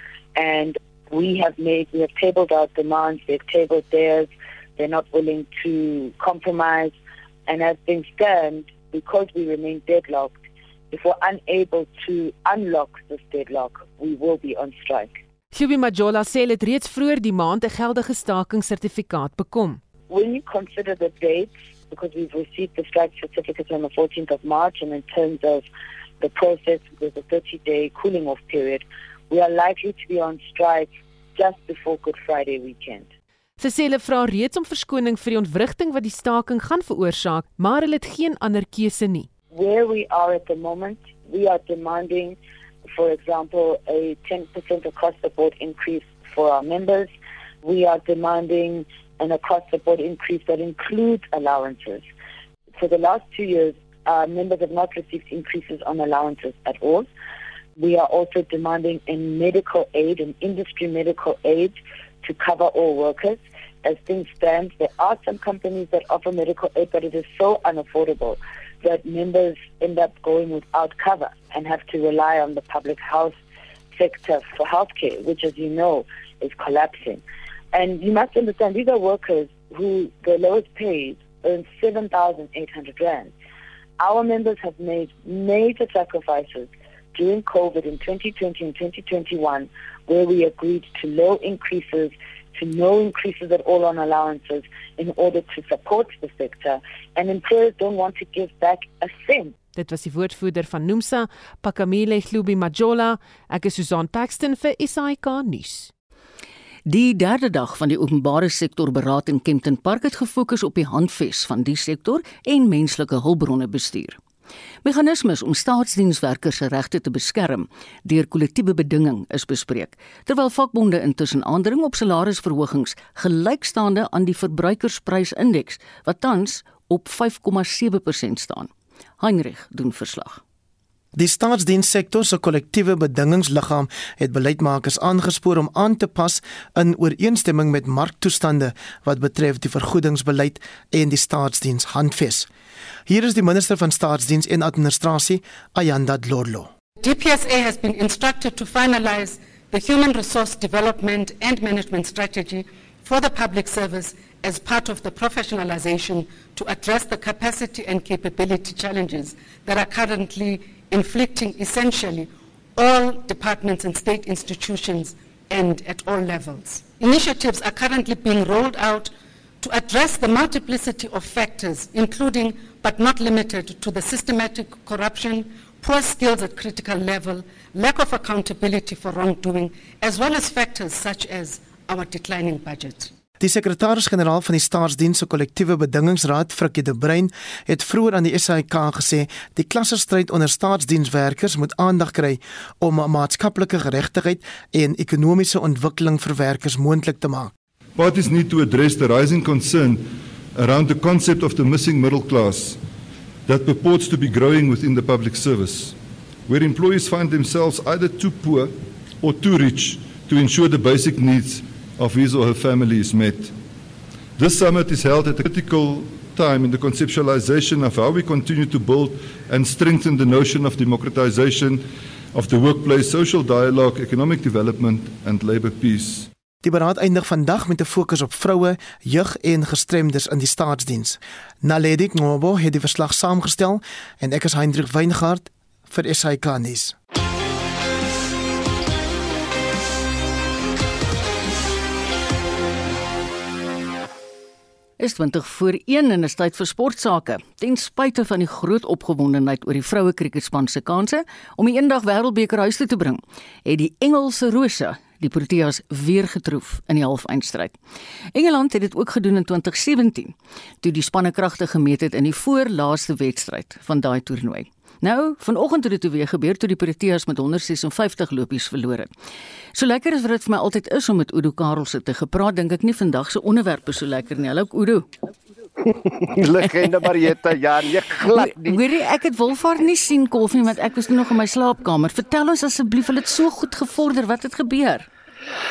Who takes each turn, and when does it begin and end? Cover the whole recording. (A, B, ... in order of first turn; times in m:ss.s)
0:00.4-0:07.0 A
0:07.5-0:10.4 A
0:10.9-0:15.2 A
0:15.5-0:19.8 B
0:20.1-0:25.7 A
0:26.2-0:33.1 A
0:33.6-0:39.3 B
0:39.5-0:42.4 A
0:42.9-0:52.1 A
0:52.8-0:57.1 A
0:57.8-1:13.4 A
1:13.9-1:23.3 A
1:24.0-1:39.6 A
1:39.7-1:45.9 B
1:46.9-1:54.2 C
1:54.8-2:10.4 C
2:11.1-2:22.5 D
2:23.1-2:26.7 D
2:27.0-3:03.1 E
3:03.4-3:17.5 D
3:18.0-3:22.8 F
3:23.5-3:26.0 F
3:26.5-3:33.5 F
3:34.4-3:46.3 F
3:46.6-3:57.0 D
4:05.0-4:17.8 C
4:18.3-4:29.1 C
4:29.8-4:35.1 C
4:35.9-4:38.8 G
4:36.6-4:37.4 C
4:38.2-4:45.1 C